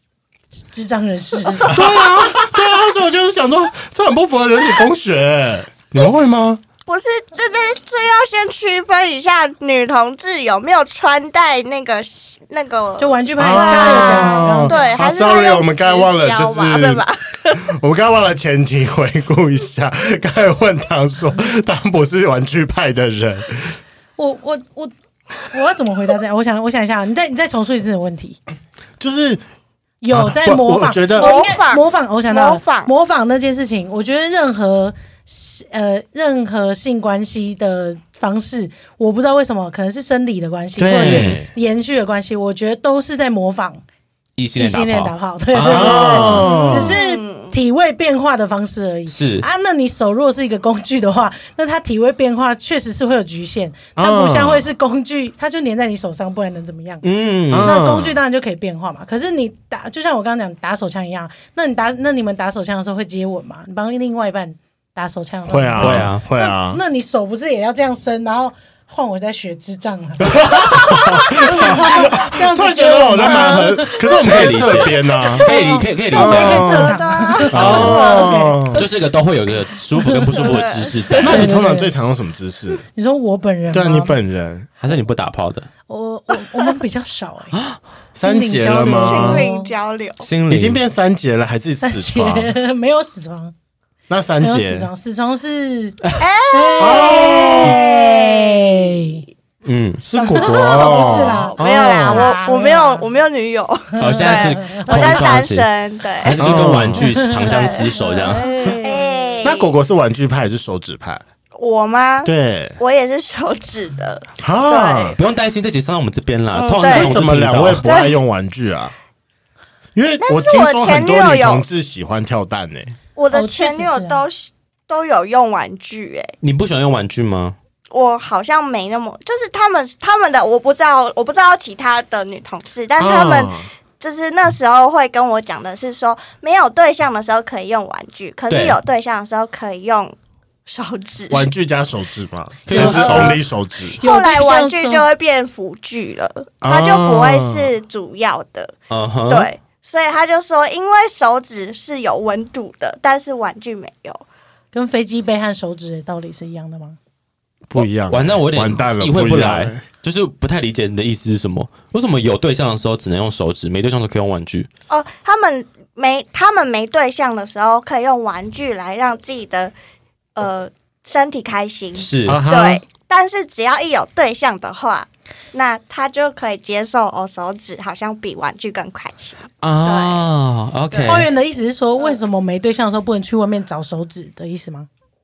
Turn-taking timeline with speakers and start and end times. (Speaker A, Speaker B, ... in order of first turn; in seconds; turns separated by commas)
Speaker A: 0.6-1.8, Speaker B: 1.7-6.6, Speaker C: 6.8-17.6, Speaker A: 13.0-14.9, Speaker B: 13.4-23.8, Speaker A: 24.2-24.9, Speaker A: 25.4-28.4, Speaker B: 29.0-29.4, Speaker A: 30.0-43.8, Speaker B: 30.1-31.3, Speaker C: 31.1-32.9, Speaker B: 40.8-41.5, Speaker D: 41.0-41.4, Speaker D: 44.4-46.5, Speaker A: 44.6-57.0, Speaker B: 45.6-47.0, Speaker C: 46.4-47.5, Speaker D: 49.1-49.4, Speaker B: 54.0-54.6, Speaker D: 57.0-57.8, Speaker B: 57.5-58.1, Speaker A: 57.6-70.4, Speaker B: 65.5-66.8, Speaker D: 65.8-66.2, Speaker D: 70.2-71.8, Speaker B: 70.5-75.5, Speaker A: 71.3-74.0, Speaker D: 73.8-76.8, Speaker C: 74.2-78.4, Speaker A: 75.4-78.8, Speaker B: 76.1-77.0, Speaker B: 77.5-78.8, Speaker D: 77.5-81.5, Speaker A: 80.0-80.5, Speaker C: 80.3-81.5, Speaker B: 81.2-82.8, Speaker A: 81.3-81.9, Speaker A: 82.9-84.2, Speaker B: 83.7-84.7, Speaker D: 84.8-85.7, Speaker A: 85.9-87.6, Speaker D: 87.5-87.8, Speaker B: 88.2-89.4, Speaker A: 88.2-89.7, Speaker C: 89.0-90.2, Speaker D: 90.2-90.8, Speaker B: 90.5-92.5, Speaker A: 91.8-93.5, Speaker B: 94.1-94.9, Speaker A: 94.4-99.2, Speaker C: 96.2-99.0, Speaker B: 96.8-97.8, Speaker D: 99.6-100.6, Speaker B: 100.1-102.3, Speaker A: 100.1-103.0, Speaker C: 100.4-109.7, Speaker A: 104.0-105.2, Speaker D: 104.0-105.7, Speaker D: 106.2-108.5, Speaker B: 106.3-107.0, Speaker A: 107.0-109.1, Speaker B: 109.4-111.2, Speaker C: 111.5-115.2, Speaker B: 112.2-112.8, Speaker B: 114.4-115.2, Speaker D: 115.2-117.8, Speaker C: 116.5-117.2, Speaker B: 116.8-118.9, Speaker C: 117.8-118.2, Speaker B: 119.9-122.9, Speaker C: 120.2-121.6, Speaker C: 123.2-126.3, Speaker A: 123.3-124.2, Speaker D: 126.4-127.5, Speaker C: 127.9-141.5, Speaker B: 133.0-133.7, Speaker D: 138.5-138.8, Speaker B: 141.3-143.9, Speaker D: 142.7-143.4, Speaker A: 142.7-143.1, Speaker C: 142.7-143.3, Speaker C: 144.0-148.7, Speaker A: 144.0-145.1, Speaker B: 146.6-147.7, Speaker D: 148.9-149.5, Speaker C: 149.3-154.2, Speaker A: 154.7-157.0, Speaker B: 157.7-159.8, Speaker D: 157.7-164.7, Speaker C: 164.9-169.7, Speaker C: 170.3-180.3, Speaker D: 171.9-172.4, Speaker B: 172.2-172.8, Speaker D: 179.6-181.3, Speaker C: 180.9-181.2, Speaker A: 181.0-184.9